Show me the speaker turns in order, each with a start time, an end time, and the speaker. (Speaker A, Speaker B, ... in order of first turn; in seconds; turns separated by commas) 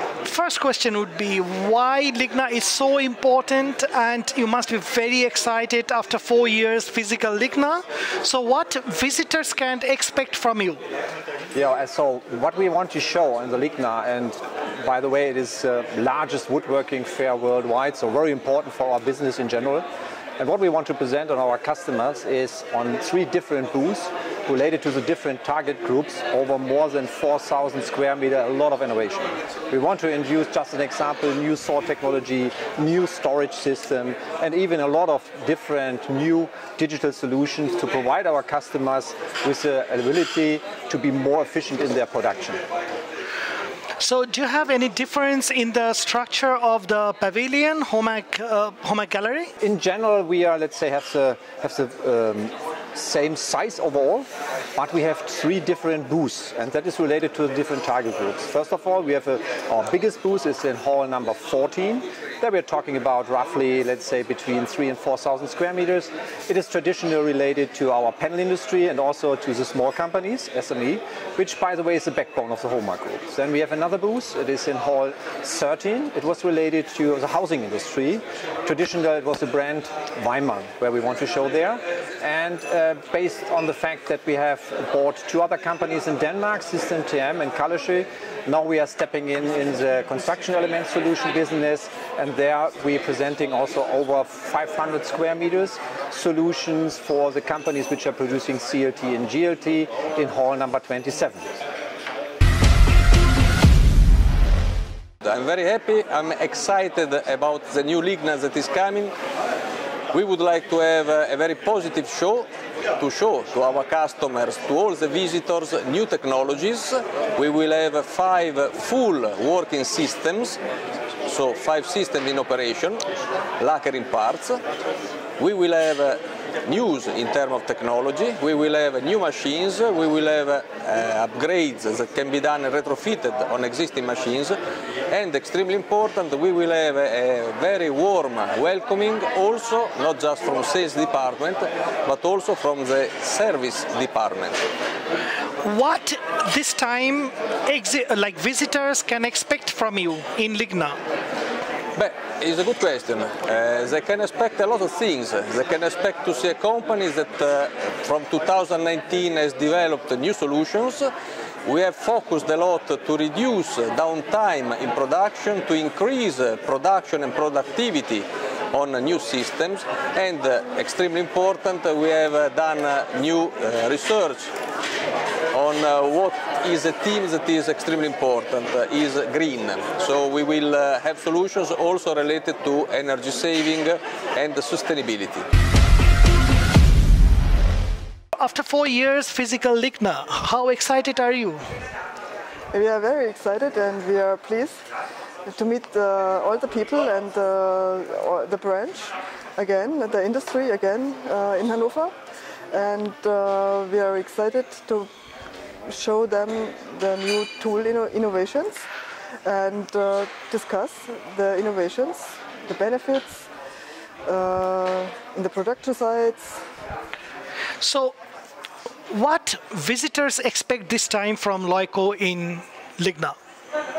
Speaker A: 0.2-10.8, Speaker B: 11.5-19.9, Speaker B: 20.4-42.6, Speaker A: 44.0-49.5, Speaker B: 49.6-101.5, Speaker C: 105.2-109.1, Speaker C: 110.1-112.4, Speaker C: 113.0-120.6, Speaker C: 121.3-123.0, Speaker C: 123.6-124.6, Speaker C: 125.4-134.5, Speaker C: 135.1-144.6, Speaker A: 145.6-151.0, Speaker C: 151.9-161.0, Speaker C: 161.7-174.3, Speaker C: 175.5-185.4, Speaker A: 188.4-191.7, Speaker D: 192.7-194.8, Speaker D: 195.4-202.1, Speaker D: 202.7-205.1, Speaker D: 205.9-208.9, Speaker D: 209.4-213.5, Speaker D: 214.2-216.6, Speaker A: 217.8-218.1, Speaker A: 219.1-223.3